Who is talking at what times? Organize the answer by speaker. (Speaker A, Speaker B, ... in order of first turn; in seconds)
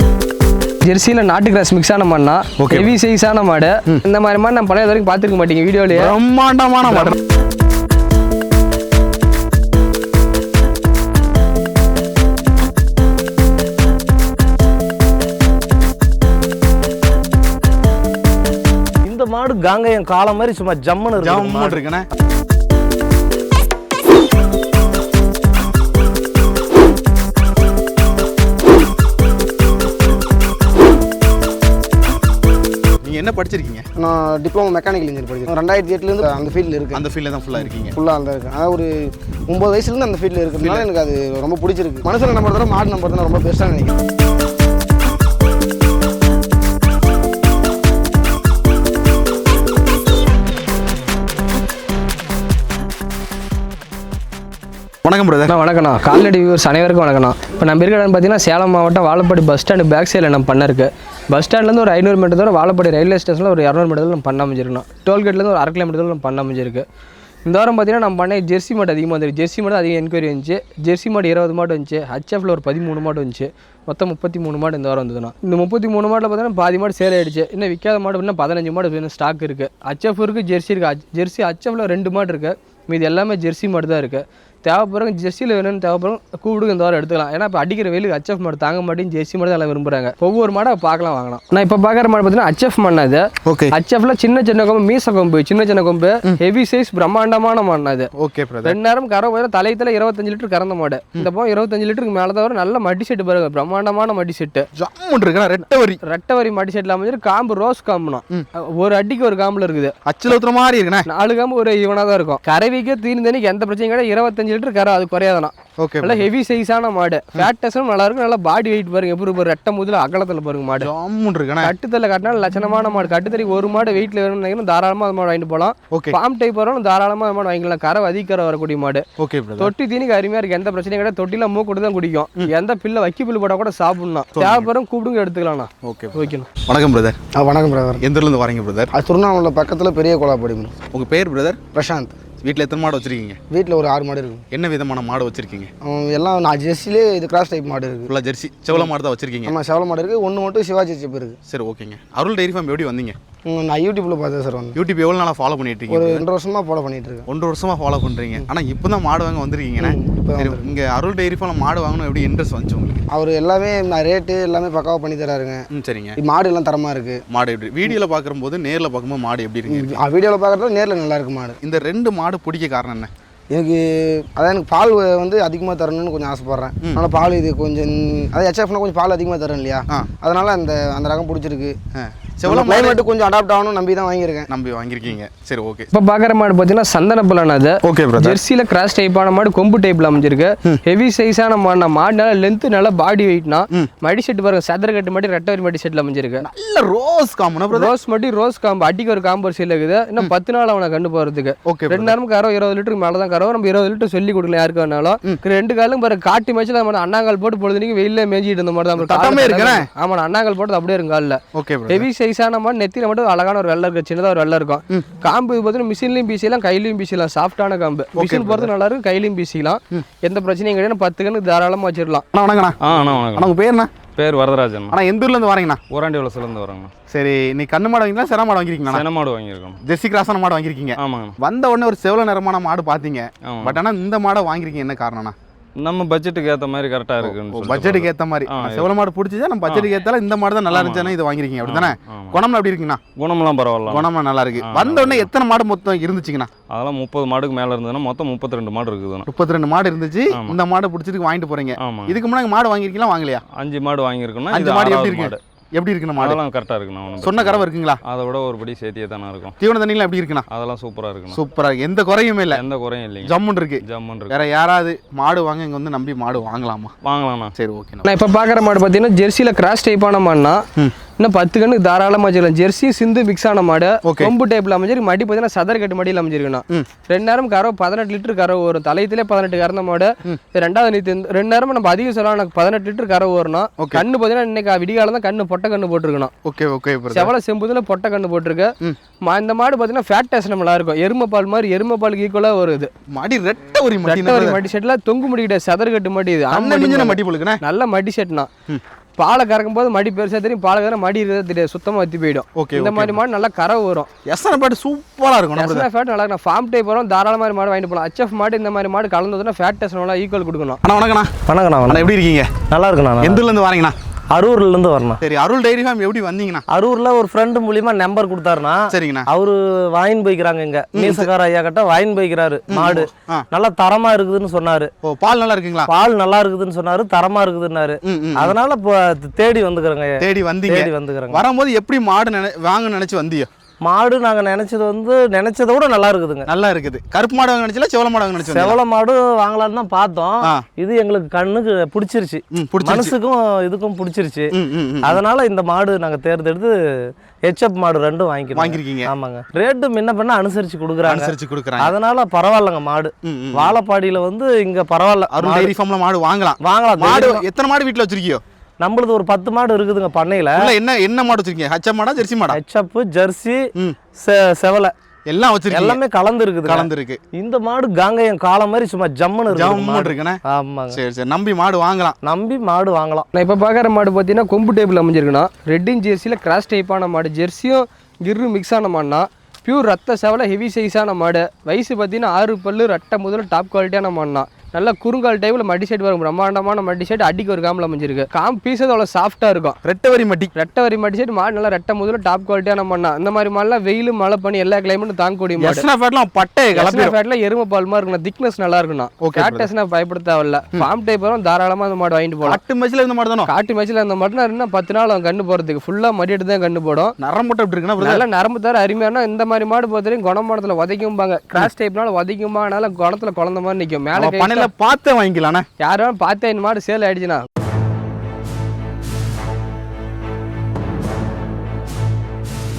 Speaker A: 0.8-6.1, 55.5-66.8, 67.5-98.1, 98.7-104.7, 106.0-109.9, 111.1-120.9, 121.6-129.1, 129.6-136.5, 185.9-196.4, 197.7-222.2, 268.0-270.6, 271.2-286.3, 287.1-288.7, 289.2-292.9, 294.1-298.5, 299.2-304.1, 305.6-310.8, 373.4-389.8, 390.5-395.9, 396.7-402.6, 403.5-407.1, 408.0-414.7, 415.8-417.4
Speaker B: 2.6-2.9, 5.9-7.2, 21.2-22.1, 33.0-33.9, 36.9-37.9, 55.0-55.5, 93.5-93.7, 98.2-98.8, 104.8-106.0, 110.1-111.1, 115.8-116.3, 120.8-121.7, 125.9-126.2, 129.2-129.7, 134.3-134.7, 135.8-137.2, 138.0-138.9, 140.9-141.6, 142.4-143.4, 144.5-145.7, 148.1-149.5, 151.5-153.2, 154.8-156.2, 157.3-163.1, 165.7-166.2, 167.3-170.0, 171.6-173.1, 181.9-183.0, 184.5-185.9, 187.8-188.4, 196.4-197.9, 201.7-202.2, 209.0-209.9, 211.5-212.1, 218.2-218.7, 222.3-223.9, 224.9-225.8, 227.1-229.1, 229.8-235.3, 237.2-243.0, 243.9-246.5, 249.3-253.4, 254.5-256.4, 257.2-258.0, 259.6-260.5, 261.3-262.6, 263.2-266.9, 267.6-268.1, 274.1-274.3, 283.8-284.1, 286.4-287.3, 293.1-294.6, 296.5-297.6, 302.6-303.2, 304.2-305.9, 310.8-311.4, 311.9-312.6, 313.2-313.9, 315.2-316.6, 318.9-319.3, 320.9-321.3, 322.7-323.4, 325.0-325.9, 328.1-328.6, 330.2-333.5, 336.5-338.8, 342.5-343.1, 344.5-345.2, 348.5-349.1, 351.1-351.9, 353.2-353.8, 355.3-358.4, 360.6-362.6, 365.3-366.0, 366.6-367.2, 369.5-370.4, 370.9-372.2, 389.8-390.5, 395.6-397.1, 399.2-399.7, 402.4-403.5, 407.2-408.2, 414.1-415.7
Speaker C: 19.1-21.8, 311.5-312.1, 312.6-313.4, 314.3-315.2, 316.7-324.9, 325.9-331.4, 333.8-336.5, 338.5-344.5, 345.1-355.7, 356.6-357.4, 358.8-360.7, 362.5-364.9, 365.7-371.0, 372.2-373.3
Speaker D: 34.0-37.0, 37.6-44.0, 137.3-138.1, 138.9-140.8, 141.7-142.2, 143.5-144.5, 145.8-148.1, 149.4-151.4, 153.4-154.8, 155.9-157.3, 159.8-160.7, 163.1-167.2, 169.7-171.6, 173.5-181.8, 182.5-184.5
Speaker E: 222.8-223.5, 224.2-225.0, 225.9-226.9, 228.9-229.8, 231.0-231.3, 233.5-233.8, 235.8-238.9, 240.7-242.4, 243.2-244.1, 244.6-245.3, 246.7-249.3, 250.3-250.6, 251.8-252.2, 253.5-255.4, 256.2-259.5, 260.5-261.4, 262.5-263.3, 263.9-264.4, 267.0-267.5